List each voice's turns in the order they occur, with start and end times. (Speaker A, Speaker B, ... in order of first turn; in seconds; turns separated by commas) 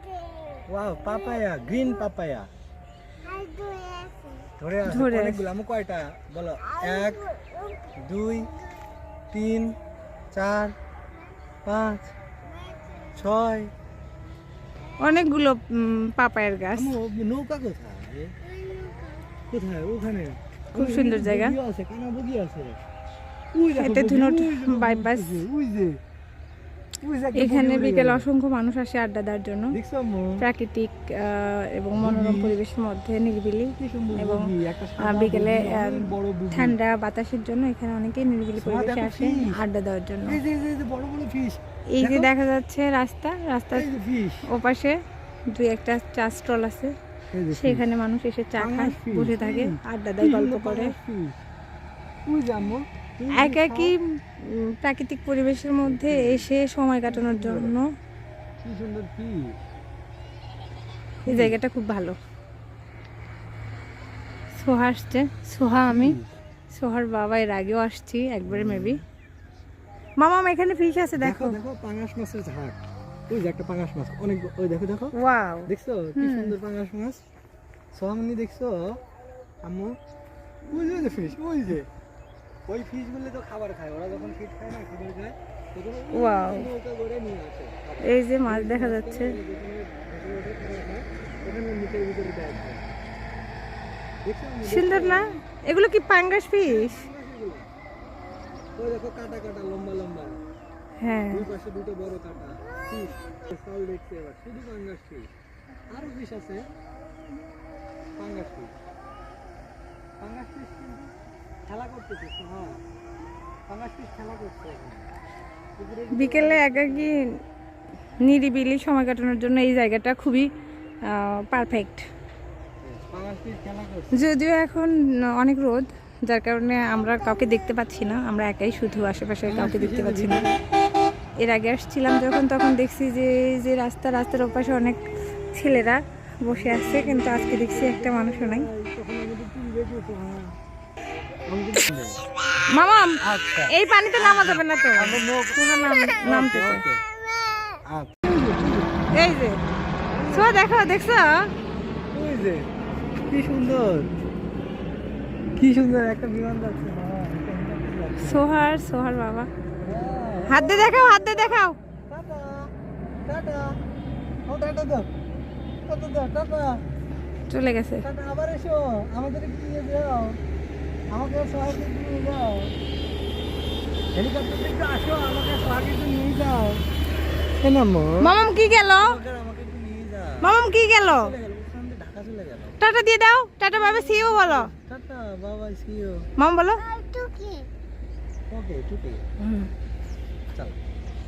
Speaker A: 0.7-2.5, Speaker A: 4.6-7.3, Speaker B: 4.9-5.4, Speaker A: 8.0-8.5, Speaker A: 9.3-9.7, Speaker A: 10.3-10.7, Speaker A: 11.6-12.1, Speaker A: 13.2-13.7, Speaker B: 15.0-16.9, Speaker A: 16.8-18.3, Speaker A: 19.5-22.8, Speaker B: 20.7-21.6, Speaker A: 23.6-25.9, Speaker B: 23.8-25.4, Speaker A: 27.0-28.2, Speaker B: 27.3-29.8, Speaker A: 29.7-30.4, Speaker B: 30.4-40.4, Speaker A: 32.0-32.6, Speaker A: 33.8-36.8, Speaker A: 38.6-39.5, Speaker A: 40.3-42.3, Speaker B: 41.9-43.9, Speaker A: 43.7-44.4, Speaker B: 44.5-45.0, Speaker B: 45.5-46.9, Speaker A: 47.3-47.9, Speaker B: 47.5-50.9, Speaker A: 48.6-51.4, Speaker A: 52.3-54.0, Speaker B: 53.3-57.8, Speaker A: 55.8-56.5, Speaker A: 57.0-57.8, Speaker A: 58.6-59.6, Speaker B: 61.2-62.2, Speaker A: 61.3-61.6, Speaker B: 64.6-66.2, Speaker A: 65.9-66.3, Speaker B: 66.7-69.0, Speaker A: 68.5-69.0, Speaker B: 70.2-71.6, Speaker A: 71.2-72.8, Speaker A: 73.3-75.1, Speaker B: 75.1-76.5, Speaker A: 75.7-77.2, Speaker A: 77.9-79.0, Speaker A: 79.6-79.9, Speaker A: 80.7-81.9, Speaker A: 82.7-92.8, Speaker B: 86.1-86.7, Speaker B: 88.0-89.4, Speaker A: 94.2-95.3, Speaker B: 94.7-97.1, Speaker A: 96.6-97.7, Speaker A: 98.8-100.3, Speaker B: 101.0-101.5, Speaker A: 101.3-105.3, Speaker A: 105.9-106.6, Speaker A: 108.2-108.7, Speaker A: 110.2-111.1, Speaker A: 111.7-112.8, Speaker A: 113.7-115.1, Speaker A: 115.8-117.1, Speaker B: 116.1-117.2, Speaker B: 118.2-120.5, Speaker B: 121.1-122.0, Speaker A: 122.8-124.3, Speaker B: 124.1-130.5, Speaker A: 129.5-130.6, Speaker B: 131.4-135.0, Speaker B: 135.5-138.7, Speaker A: 136.5-140.5, Speaker A: 141.5-142.2, Speaker B: 142.7-143.2, Speaker A: 143.2-145.6, Speaker B: 143.7-146.8, Speaker A: 146.2-147.0, Speaker A: 147.9-148.9, Speaker B: 149.1-149.6, Speaker A: 150.2-150.6, Speaker B: 150.3-151.5, Speaker A: 152.1-152.7, Speaker A: 153.3-154.1, Speaker A: 155.6-158.4, Speaker B: 158.2-159.5, Speaker A: 159.8-162.6, Speaker B: 160.5-161.8, Speaker A: 163.3-163.7, Speaker A: 164.5-165.1, Speaker A: 165.8-166.8, Speaker B: 167.5-168.0, Speaker A: 168.0-170.3, Speaker A: 171.1-172.7, Speaker A: 174.2-176.8, Speaker A: 177.6-178.4, Speaker B: 178.2-179.2, Speaker A: 178.9-180.4, Speaker B: 180.4-181.3, Speaker A: 181.0-182.8, Speaker B: 182.8-184.7, Speaker A: 183.7-186.2, Speaker B: 186.4-186.9, Speaker A: 188.5-189.2, Speaker B: 189.4-189.7